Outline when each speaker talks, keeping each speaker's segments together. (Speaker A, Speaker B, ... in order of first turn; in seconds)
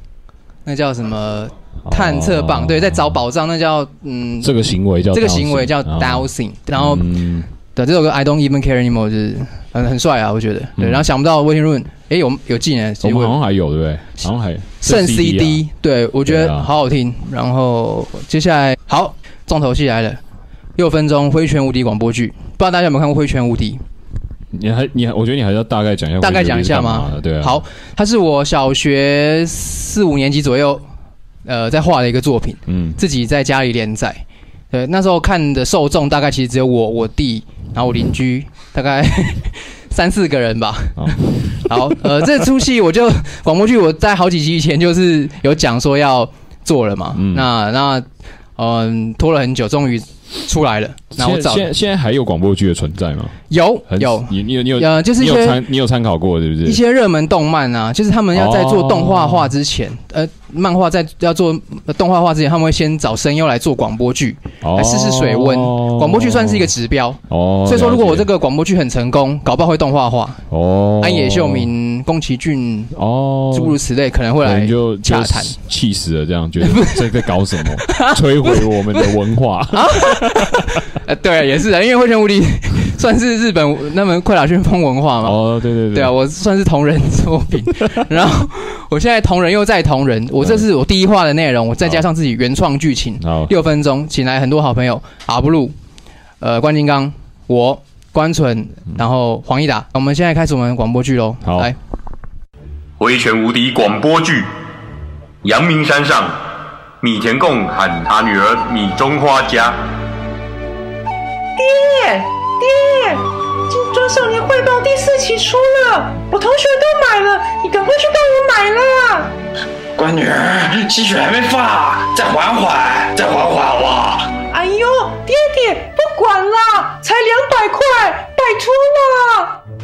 Speaker A: 0.7-4.5, 5.1-7.1, 7.7-13.4, 14.8-20.2, 20.8-23.8, 26.2-30.9, 31.4-48.1, 48.6-51.7, 53.5-55.6, 56.6-70.4, 71.0-72.9, 73.5-75.6, 76.6-77.0, 77.9-79.1, 79.7-95.8, 96.4-101.8
Speaker B: 1.9-3.2, 4.4-7.5, 10.8-11.1, 13.0-15.6, 16.3-16.7, 24.5-27.6, 32.7-33.0, 41.0-41.7, 47.1-47.5, 51.1-56.8, 58.3-59.5, 64.6-66.7, 67.3-68.3, 70.5-71.7, 72.9-73.8, 74.4-80.7, 85.2-86.1, 90.4-90.7, 93.2-93.5, 101.4-101.7
Speaker C: 103.0-104.5, 105.4-106.4, 107.0-109.8
Speaker D: 111.6-119.3, 124.5-129.6
Speaker E: 120.0-124.3